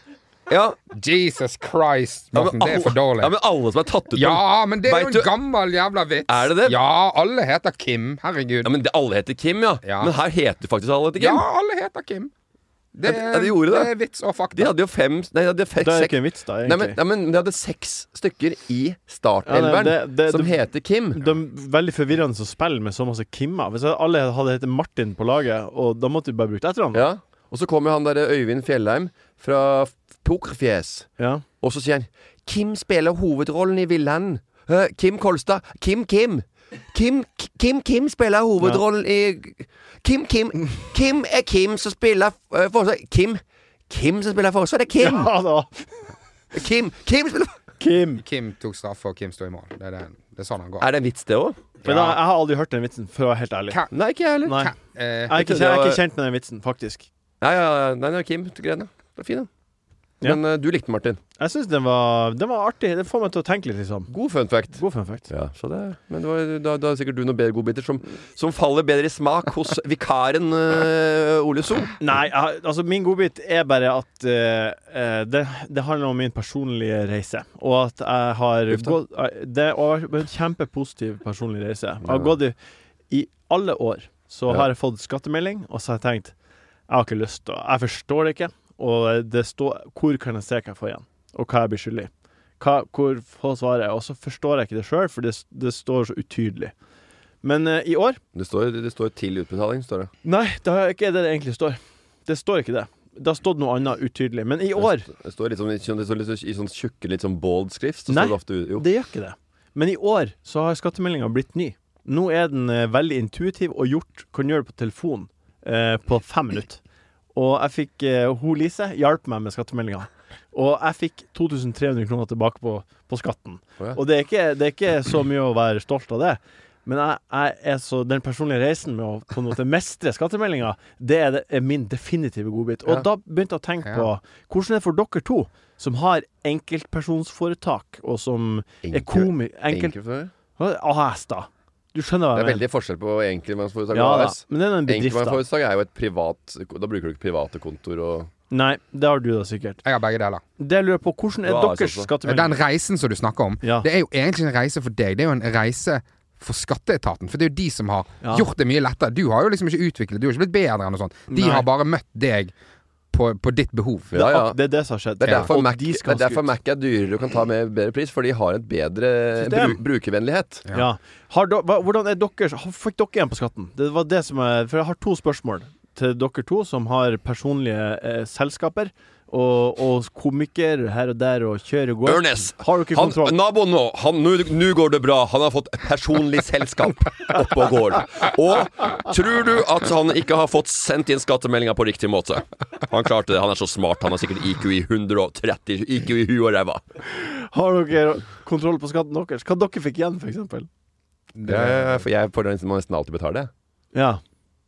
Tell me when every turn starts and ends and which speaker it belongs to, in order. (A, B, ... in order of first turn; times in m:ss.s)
0:00.5-0:00.8 A
0:00.9-0:03.3 B
0:02.3-0:05.3 A
0:04.2-0:08.7 B
0:06.3-0:06.8 A
0:08.6-0:11.4 A
0:09.8-0:10.1 B
0:11.2-0:12.3 B
0:12.9-0:14.7 B
0:13.1-0:13.9 A
0:14.6-0:21.3 A
0:15.8-0:17.0 C
0:19.5-0:20.6 C
0:21.1-0:27.0 C
0:26.9-0:45.3 A
0:31.2-0:31.4 C
0:45.0-0:46.1 C
0:46.5-0:47.6 A
0:47.8-0:48.2 C
0:48.2-0:50.9 B
0:50.8-0:51.6 A
0:51.8-0:53.8 C
0:51.8-0:52.2 B
0:53.9-0:54.6 A
0:54.4-0:54.7 C
0:54.5-0:55.3 B
0:55.3-0:57.1 C
0:55.3-0:56.0 A
0:57.4-0:59.5 A
1:00.2-1:01.2 A
1:01.4-1:04.1 C
1:04.1-1:11.9 A
1:04.8-1:05.3 C
1:12.0-1:22.6 C
1:22.1-1:22.3 A
1:23.1-1:26.3 C
1:26.9-1:36.7 C
1:37.4-1:38.2 C
1:38.3-1:40.1 A
1:40.2-1:45.1 C
1:44.8-1:48.9 A
1:48.1-1:56.8 C
1:57.3-2:19.9 C
2:18.8-2:20.3 A
2:20.6-2:22.6 C
2:22.3-2:28.3 A
2:23.9-2:25.4 C
2:28.5-2:29.8 C
2:29.8-2:30.4 B
2:30.6-2:32.6 C
2:31.4-2:32.1 A
2:32.2-2:42.5 B
2:33.6-2:33.9 C
2:38.2-2:38.5 C
2:41.3-2:41.7 C
2:43.1-2:44.1 B
2:44.1-2:44.6 A
2:44.2-2:46.5 C
2:45.2-2:50.6 A
2:49.4-2:49.8 C
2:50.7-3:03.4 C
3:02.1-3:16.8 A
3:17.1-3:20.7 C
3:21.4-3:22.0 B
3:21.5-3:23.5 A
3:23.9-3:24.2 C